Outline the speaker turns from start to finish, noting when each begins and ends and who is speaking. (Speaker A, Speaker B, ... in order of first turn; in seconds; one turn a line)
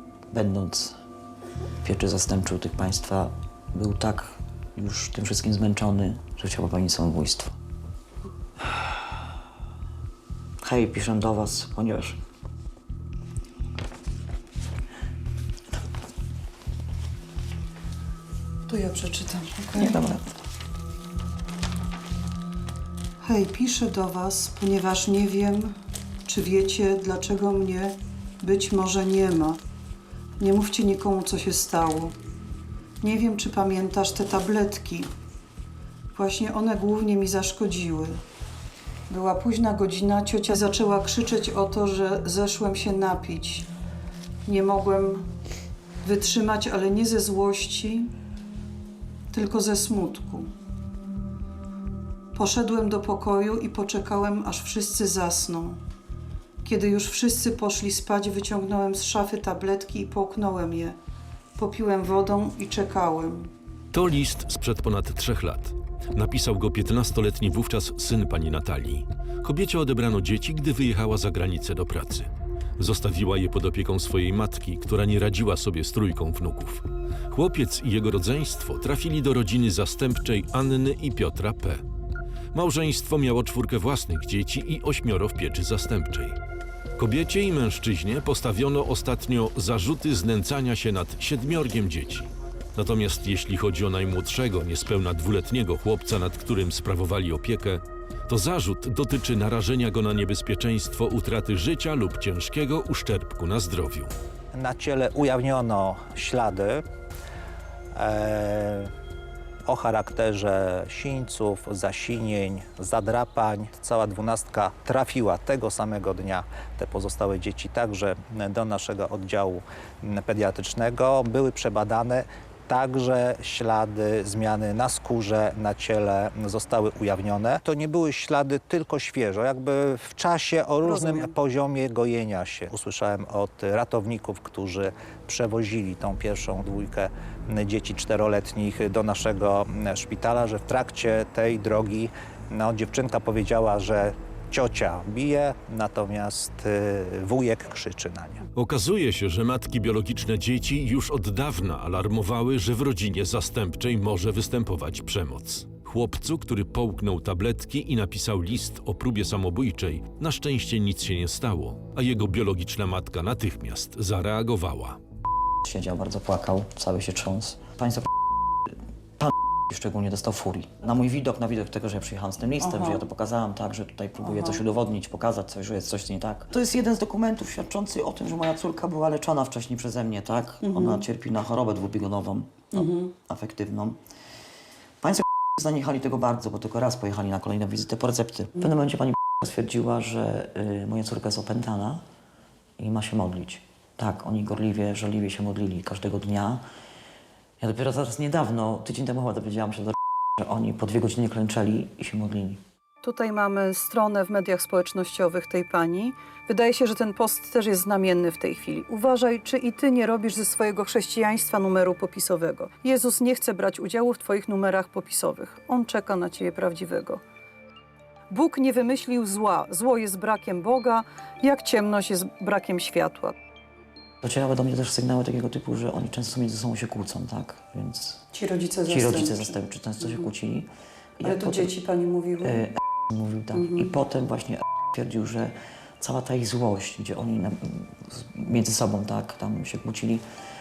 Speaker A: 0.3-1.0
Speaker A: 1.8-7.5
Speaker A: 10.6-12.2
Speaker B: 18.7-20.0
Speaker A: 19.8-20.3
Speaker B: 23.2-29.6
Speaker B: 30.4-32.1
Speaker B: 33.0-35.1
Speaker B: 36.1-38.2
Speaker B: 39.1-43.7
Speaker B: 44.4-45.2
Speaker B: 46.0-48.1
Speaker B: 49.3-50.5
Speaker B: 52.3-55.8
Speaker B: 56.6-61.0
Speaker B: 61.5-63.5
Speaker C: 63.9-81.8
Speaker C: 82.5-86.4
Speaker C: 87.0-104.1
Speaker D: 104.5-106.8
Speaker D: 107.9-108.9
Speaker D: 109.7-148.4
Speaker B: 130.8-131.3
Speaker C: 148.6-165.0
Speaker A: 165.6-168.1
Speaker A: 169.2-184.0
Speaker B: 172.6-173.1
Speaker B: 174.2-174.6
Speaker B: 180.6-181.0
Speaker B: 182.7-183.1
Speaker A: 185.0-192.0
Speaker A: 192.8-196.6
Speaker A: 197.6-202.6
Speaker B: 203.0-217.2
Speaker B: 218.3-223.4
Speaker A: 224.2-228.2
Speaker B: 228.3-230.3
Speaker A: 228.9-231.7
Speaker B: 231.2-232.7
Speaker A: 232.4-240.2
Speaker B: 233.5-233.9